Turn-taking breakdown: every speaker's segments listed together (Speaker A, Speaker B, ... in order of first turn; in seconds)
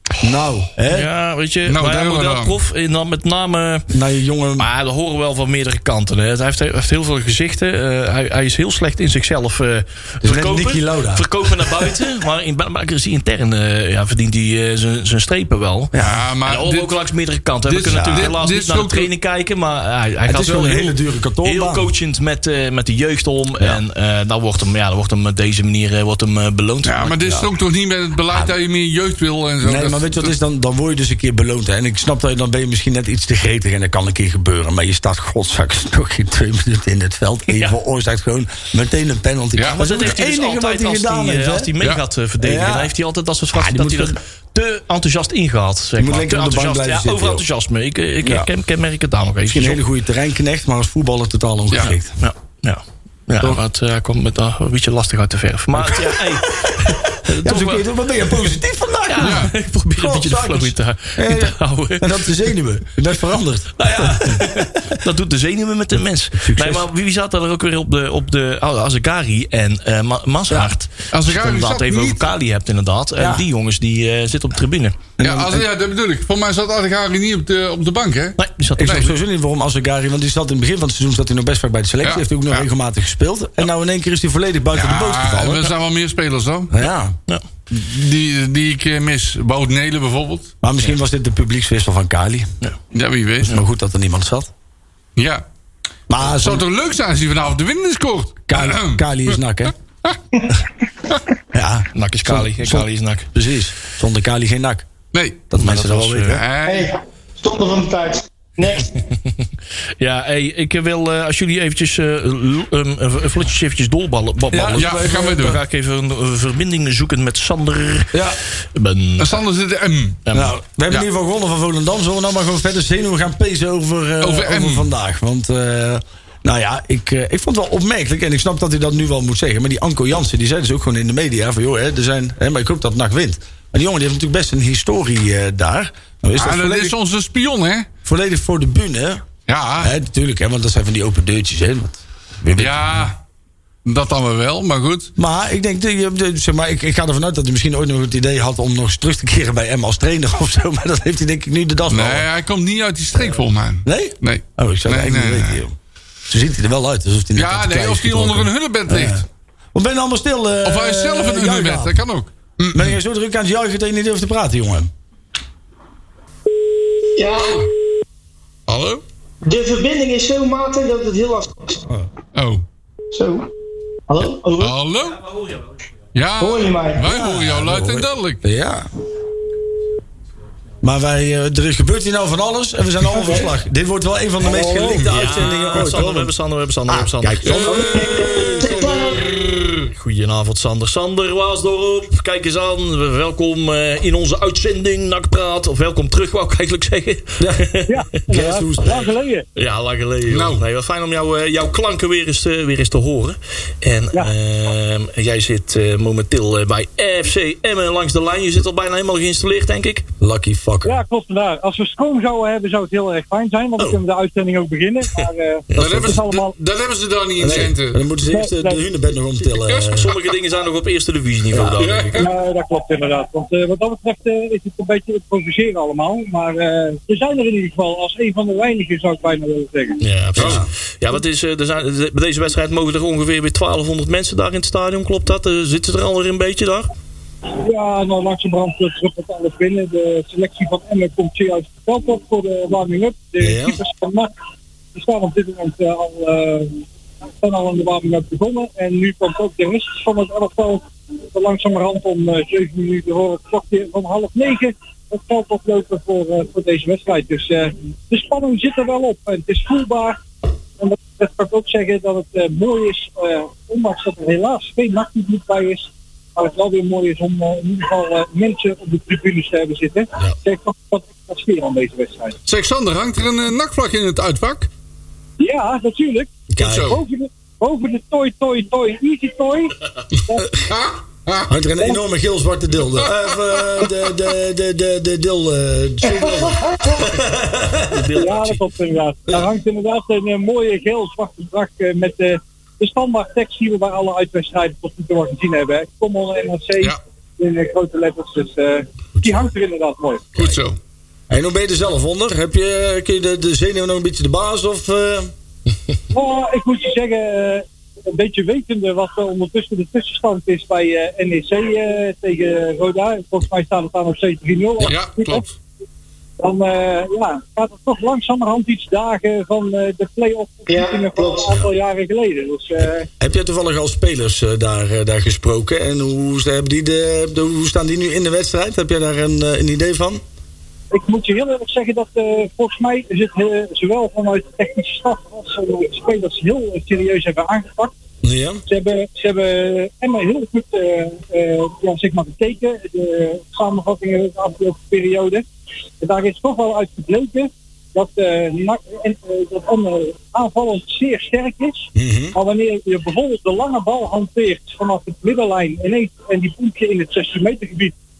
Speaker A: 0.2-1.1, 3.9-4.7, 10.2-11.9, 15.9-16.2, 17.9-18.3, 20.2-21.9, 29.6-41.7, 42.4-42.9, 43.5-44.2, 46.0-47.4, 48.2-48.5, 49.5-52.2, 55.7-64.9, 66.4-66.9, 73.2-73.4, 75.2-75.7, 78.8-85.7, 86.7-87.1, 90.6-92.5, 93.4-94.5, 96.1-96.6, 98.5-99.7, 101.5-104.9, 105.5-106.4, 114.5-115.5, 118.1-118.4, 120.3-136.9, 138.0-139.2, 139.8-143.1, 145.2-152.2, 153.1-155.7, 156.3-162.0, 162.7-164.9, 177.0-178.9, 180.8-186.3, 186.9-188.2, 197.4-197.7, 198.3-199.1, 210.2-211.0, 215.7-216.2, 217.4-220.1, 230.3-230.7, 243.4-243.8, 276.5-276.9, 281.5-288.0, 299.1-299.4, 301.3-305.3, 322.8-330.2, 338.2-338.6, 351.9-352.4
Speaker B: 0.9-3.9, 4.6-15.9, 16.4-27.4, 39.7-49.8, 51.8-57.8, 59.1-62.3, 63.8-75.0, 78.4-79.1, 101.9-103.3, 105.6-106.4, 110.0-118.2, 118.7-119.4, 120.3-120.5, 185.0-187.7, 189.9-197.9, 199.6-210.1, 219.9-222.3, 230.0-236.9, 287.9-288.6
Speaker C: 1.7-2.5, 16.0-17.0, 17.7-19.1, 26.8-30.3, 59.2-59.5, 71.1-72.3, 75.2-79.0, 82.0-82.6, 84.7-86.8, 87.7-90.5, 92.9-93.6, 95.2-95.4, 96.2-99.0, 105.1-105.5, 106.2-106.9, 114.8-115.6, 119.2-120.2, 124.2-124.9, 136.3-137.9, 139.5-139.9, 142.6-143.2, 143.8-145.1, 151.9-155.6, 157.3-159.2, 160.6-163.0, 168.7-169.0, 172.3-172.6, 174.6-175.2, 176.1-178.4, 187.4-189.9, 200.3-200.6, 215.8-218.0, 219.6-220.1, 221.8-222.3, 230.4-230.6, 272.5-274.7, 276.6-277.0, 280.6-281.5, 283.0-283.9, 300.4-300.8, 314.8-315.5
Speaker D: 106.6-108.9, 167.2-167.7, 169.4-171.8, 173.1-173.5, 174.1-174.7, 176.4-177.0, 183.1-183.5, 184.4-185.1, 187.6-189.3, 286.1-287.0, 320.7-321.6
Speaker E: 197.9-199.4, 210.8-216.5, 218.3-218.8, 222.2-230.0, 237.6-244.3, 244.9-246.8, 247.4-260.2, 260.8-272.4, 275.4-279.7, 288.2-300.3, 306.1-315.4, 316.4-323.1, 330.9-337.9, 338.7-345.4, 346.0-357.9